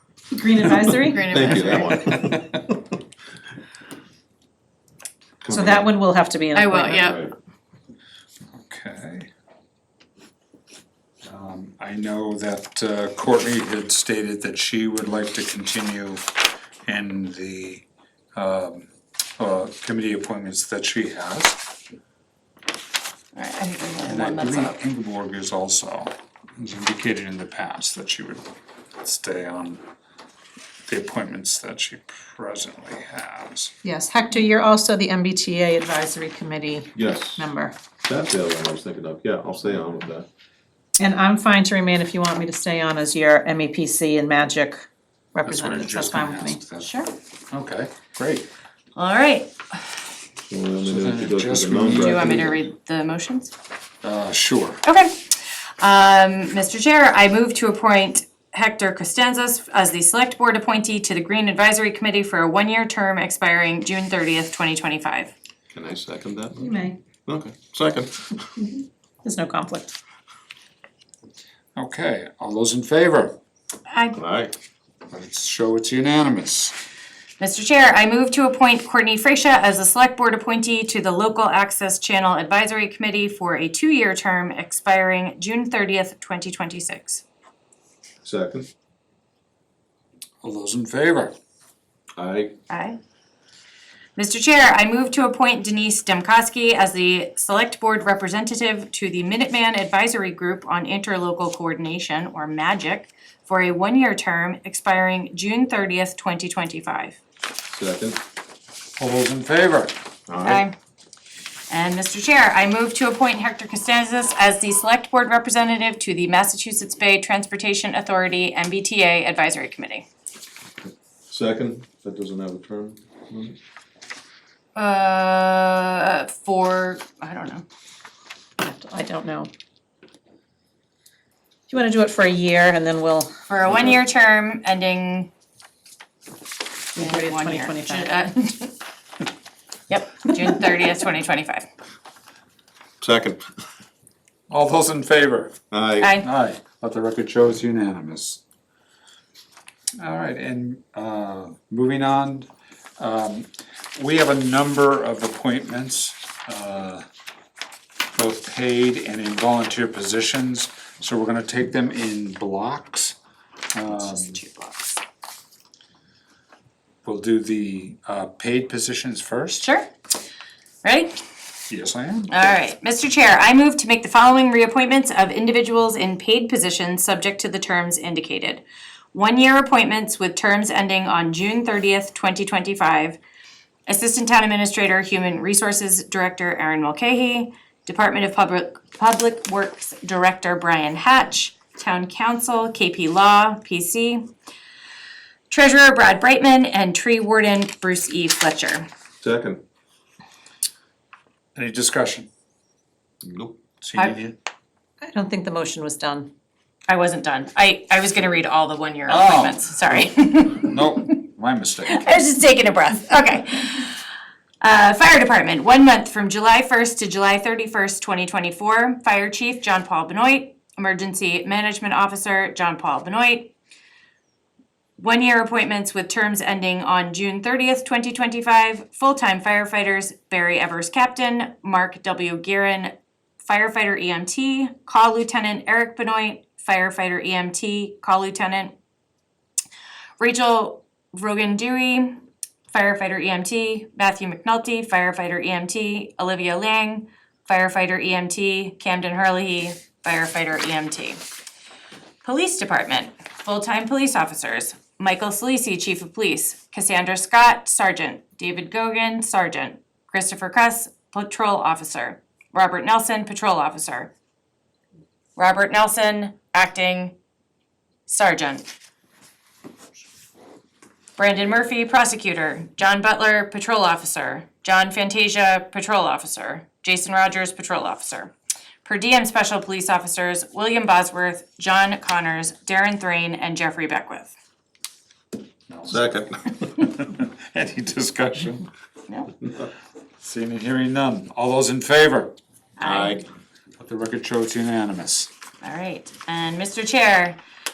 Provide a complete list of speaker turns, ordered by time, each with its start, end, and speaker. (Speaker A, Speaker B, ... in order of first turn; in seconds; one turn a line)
Speaker A: 0.3-1.5
Speaker B: 1.1-2.0
Speaker C: 1.3-2.4
Speaker D: 2.1-2.4
Speaker C: 5.4-5.9
Speaker A: 5.5-7.0
Speaker B: 6.5-7.2
Speaker C: 6.9-7.3
Speaker D: 8.6-9.3
Speaker D: 11.2-16.2
Speaker D: 16.9-21.7
Speaker B: 23.3-24.8
Speaker D: 24.1-28.4
Speaker D: 29.0-29.8
Speaker D: 30.9-33.7
Speaker A: 33.8-37.7
Speaker C: 36.9-37.4
Speaker C: 38.0-40.3
Speaker A: 41.0-46.6
Speaker D: 45.5-46.9
Speaker B: 46.8-47.1
Speaker D: 47.5-48.5
Speaker B: 48.9-50.0
Speaker C: 50.5-52.6
Speaker D: 50.9-52.4
Speaker B: 51.9-53.5
Speaker D: 54.0-54.8
Speaker B: 54.8-65.3
Speaker C: 65.7-68.6
Speaker A: 66.6-67.0
Speaker A: 69.2-69.9
Speaker D: 71.8-73.3
Speaker B: 73.9-74.1
Speaker C: 74.1-74.5
Speaker D: 75.1-76.8
Speaker B: 77.4-87.2
Speaker C: 88.2-88.7
Speaker D: 90.4-91.3
Speaker C: 92.2-92.5
Speaker B: 92.7-93.0
Speaker B: 94.2-107.2
Speaker C: 107.7-108.2
Speaker D: 109.0-109.9
Speaker C: 110.3-110.7
Speaker B: 110.4-110.7
Speaker B: 111.7-120.0
Speaker C: 120.8-123.6
Speaker B: 124.8-127.6
Speaker A: 128.6-129.5
Speaker A: 131.7-133.3
Speaker B: 133.5-135.3
Speaker C: 133.6-134.0
Speaker A: 136.9-138.1
Speaker B: 136.9-138.7
Speaker B: 139.9-141.7
Speaker C: 143.0-143.4
Speaker D: 144.5-145.6
Speaker C: 145.7-146.2
Speaker B: 146.0-146.3
Speaker D: 146.2-148.4
Speaker D: 150.0-157.0
Speaker D: 158.1-163.2
Speaker D: 163.7-164.4
Speaker B: 163.9-165.0
Speaker D: 167.0-169.7
Speaker B: 169.6-169.9
Speaker B: 170.8-171.2
Speaker D: 171.7-172.3
Speaker B: 172.3-183.2
Speaker B: 183.9-194.3
Speaker B: 195.5-198.9
Speaker C: 199.2-199.6
Speaker D: 201.5-202.3
Speaker C: 203.2-203.6
Speaker D: 203.8-204.3
Speaker A: 205.0-206.3
Speaker B: 206.9-211.1
Speaker D: 209.1-212.1
Speaker B: 211.9-214.0
Speaker B: 214.6-223.5
Speaker B: 225.0-238.7
Speaker B: 240.2-251.2
Speaker B: 252.2-264.1
Speaker B: 265.4-267.1
Speaker B: 268.1-268.6
Speaker B: 271.2-278.3
Speaker B: 278.8-284.3
Speaker D: 285.7-286.1
Speaker C: 285.9-286.5
Speaker D: 286.8-288.7
Speaker D: 290.2-292.3
Speaker B: 292.8-293.2
Speaker C: 292.8-293.2
Speaker D: 293.8-295.3
Speaker B: 295.6-297.4